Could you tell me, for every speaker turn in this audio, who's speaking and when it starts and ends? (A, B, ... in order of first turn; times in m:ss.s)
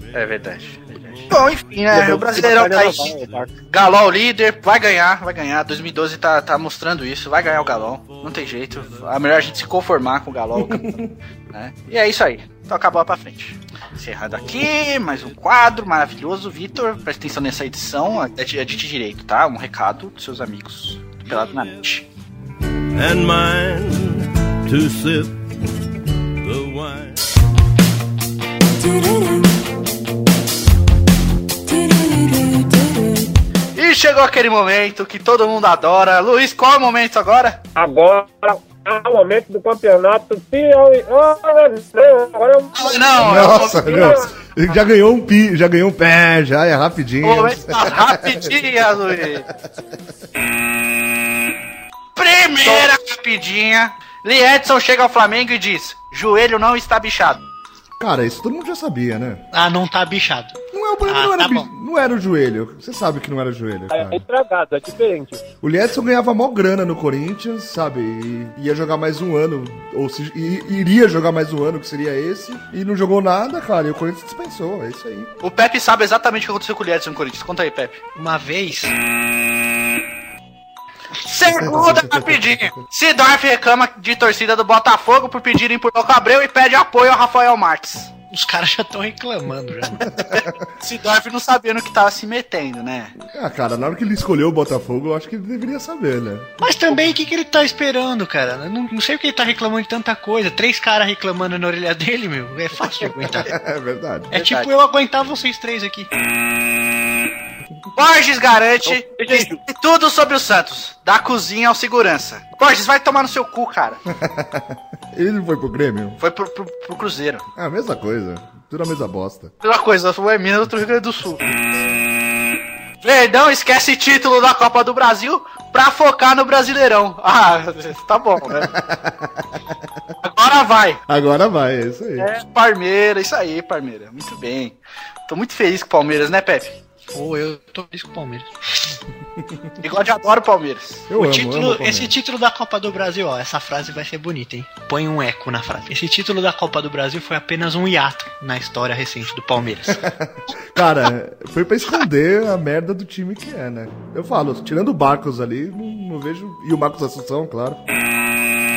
0:00.1-0:03.2 A
0:01.9-0:03.5 B
0:03.7-0:22.1 A
0:10.6-0:11.1 C
0:22.9-0:25.4 D
0:26.4-0:27.2 D
0:33.8-0:37.6 A
0:37.8-0:44.3 B
0:42.8-0:44.3 A
0:43.2-0:49.3 C
0:47.2-0:49.5 A
0:52.2-0:57.4 A
0:58.0-0:59.4 C
0:59.5-1:00.6 E
1:00.7-1:04.2 C
1:01.1-1:01.7 E
1:03.9-1:05.4 B
1:05.6-1:15.3 C
1:15.4-1:18.0 A
1:18.2-1:18.9 E
1:21.2-1:28.1 A
1:21.6-1:22.4 C
1:28.3-1:30.1 E
1:30.8-1:33.2 A
1:33.3-1:36.5 C
1:36.6-1:43.5 E
1:43.4-1:44.3 C
1:44.3-1:46.1 E
1:44.4-1:44.7 A
1:48.0-1:54.0 A
1:48.9-1:49.6 B
1:54.1-1:56.2 C
1:56.2-1:57.4 A
1:57.6-1:59.5 C
1:59.6-2:01.4 A
2:03.0-2:08.7 A
2:08.6-2:09.6 C
2:10.2-2:11.0 A
2:11.1-2:12.3 C
2:12.2-2:14.8 A
2:15.3-2:16.8 A
2:17.1-2:18.5 E
2:19.8-2:21.2 A
2:21.1-2:22.1 C
2:21.2-2:30.0 E
2:29.9-2:37.8 C